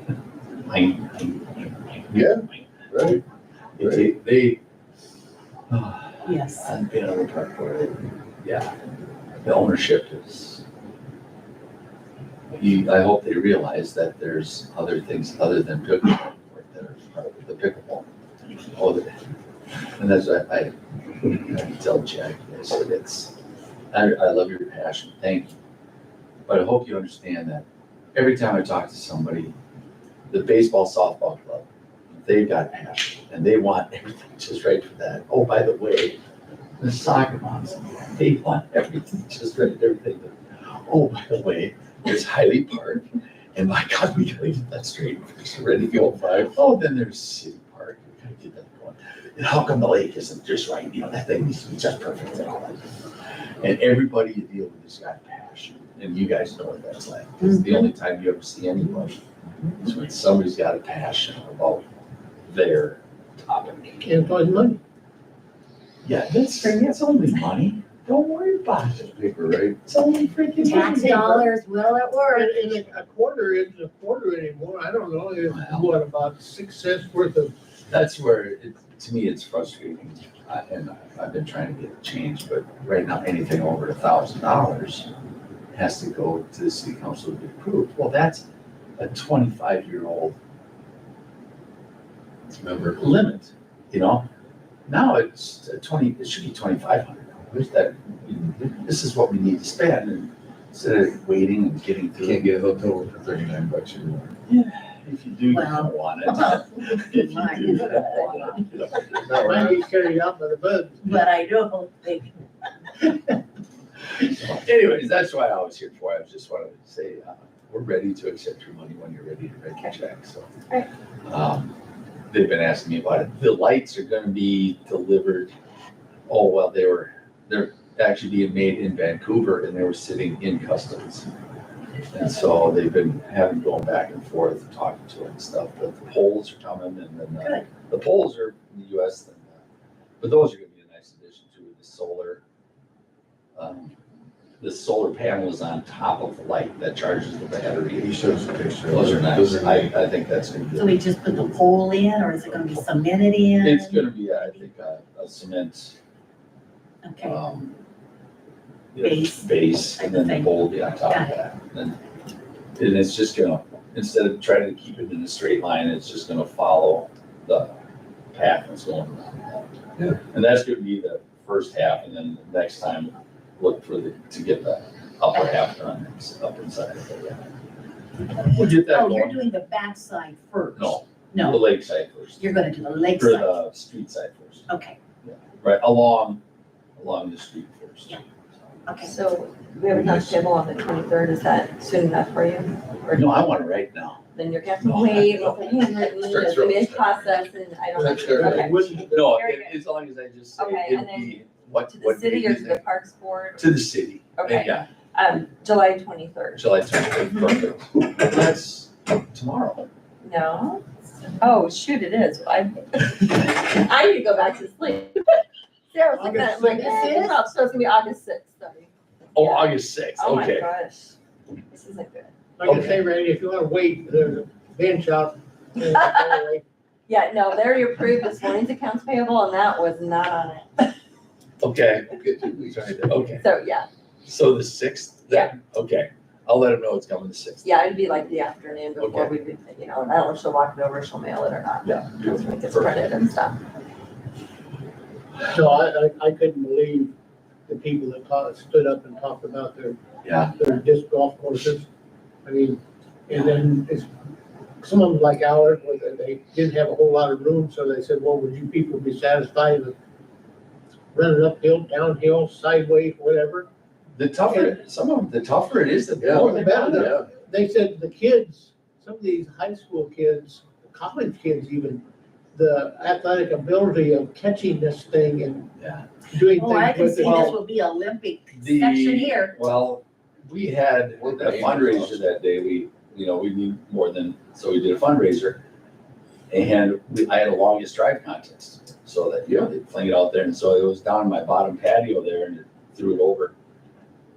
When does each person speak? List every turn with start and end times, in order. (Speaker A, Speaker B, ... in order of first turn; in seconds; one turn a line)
Speaker A: 0.6-1.9
Speaker B: 2.1-3.2
Speaker A: 2.5-3.1
Speaker A: 3.8-4.6
Speaker B: 3.8-4.1
Speaker A: 5.7-8.7
Speaker C: 6.2-6.7
Speaker A: 9.4-10.6
Speaker A: 12.5-18.1
Speaker A: 18.7-19.2
Speaker A: 20.0-23.3
Speaker A: 23.9-25.5
Speaker A: 26.4-29.5
Speaker A: 30.3-36.2
Speaker A: 36.8-53.0
Speaker B: 45.7-46.6
Speaker A: 53.6-59.2
Speaker A: 59.8-61.8
Speaker A: 62.4-64.1
Speaker D: 64.0-64.8
Speaker A: 66.0-69.1
Speaker B: 69.0-69.8
Speaker A: 69.8-71.3
Speaker C: 70.6-72.7
Speaker D: 71.0-71.5
Speaker D: 72.3-77.5
Speaker A: 75.5-75.9
Speaker A: 77.9-85.1
Speaker A: 85.7-88.4
Speaker A: 89.0-90.3
Speaker B: 92.6-93.0
Speaker A: 93.0-94.2
Speaker A: 94.9-102.5
Speaker B: 102.2-104.3
Speaker A: 104.5-109.6
Speaker C: 105.5-108.7
Speaker B: 109.1-109.8
Speaker D: 109.4-111.1
Speaker C: 111.0-113.1
Speaker A: 114.2-120.5
Speaker A: 121.2-121.7
Speaker A: 122.3-125.5
Speaker A: 126.3-131.3
Speaker A: 132.1-139.6
Speaker A: 140.2-142.4
Speaker A: 143.6-143.9
Speaker A: 144.6-148.2
Speaker B: 148.0-149.9
Speaker A: 148.9-150.9
Speaker C: 150.8-154.6
Speaker A: 153.6-156.0
Speaker C: 157.0-157.4
Speaker A: 157.2-157.8
Speaker A: 158.9-161.9
Speaker C: 159.0-161.4
Speaker A: 162.8-167.7
Speaker A: 168.3-169.7
Speaker A: 170.2-177.5
Speaker A: 178.4-179.4
Speaker C: 178.4-181.6
Speaker A: 180.8-182.4
Speaker C: 182.4-183.6
Speaker A: 183.2-184.6
Speaker C: 184.7-185.0
Speaker A: 185.2-186.4
Speaker A: 187.0-188.7
Speaker C: 188.8-189.1
Speaker E: 189.0-193.5
Speaker A: 190.0-190.3
Speaker A: 193.1-194.2
Speaker E: 194.3-199.8
Speaker A: 194.8-195.7
Speaker B: 195.7-197.3
Speaker B: 197.9-199.2
Speaker A: 198.3-202.8
Speaker E: 200.6-203.7
Speaker A: 203.6-204.9
Speaker E: 204.3-206.7
Speaker A: 206.5-209.9
Speaker E: 210.2-221.2
Speaker D: 216.2-217.2
Speaker C: 216.4-217.3
Speaker A: 219.3-220.7
Speaker E: 221.7-222.3
Speaker D: 222.6-226.6
Speaker A: 222.6-222.9
Speaker E: 225.9-226.4
Speaker E: 227.1-230.9
Speaker A: 231.6-232.1
Speaker B: 232.1-233.4
Speaker A: 233.0-233.4
Speaker E: 233.4-233.9
Speaker A: 234.2-238.0
Speaker E: 237.6-243.6
Speaker A: 239.0-239.3
Speaker A: 241.8-243.1
Speaker D: 245.5-247.1
Speaker D: 247.7-249.9
Speaker A: 250.2-250.5
Speaker D: 250.5-251.9
Speaker D: 252.4-254.1
Speaker D: 254.8-259.9
Speaker D: 261.1-263.7
Speaker A: 264.1-267.1
Speaker D: 264.5-264.7
Speaker B: 266.2-267.3
Speaker D: 266.3-275.7
Speaker A: 275.8-276.1
Speaker D: 276.3-277.6
Speaker C: 276.5-279.5
Speaker A: 278.5-285.6
Speaker B: 281.1-282.3
Speaker A: 286.5-293.5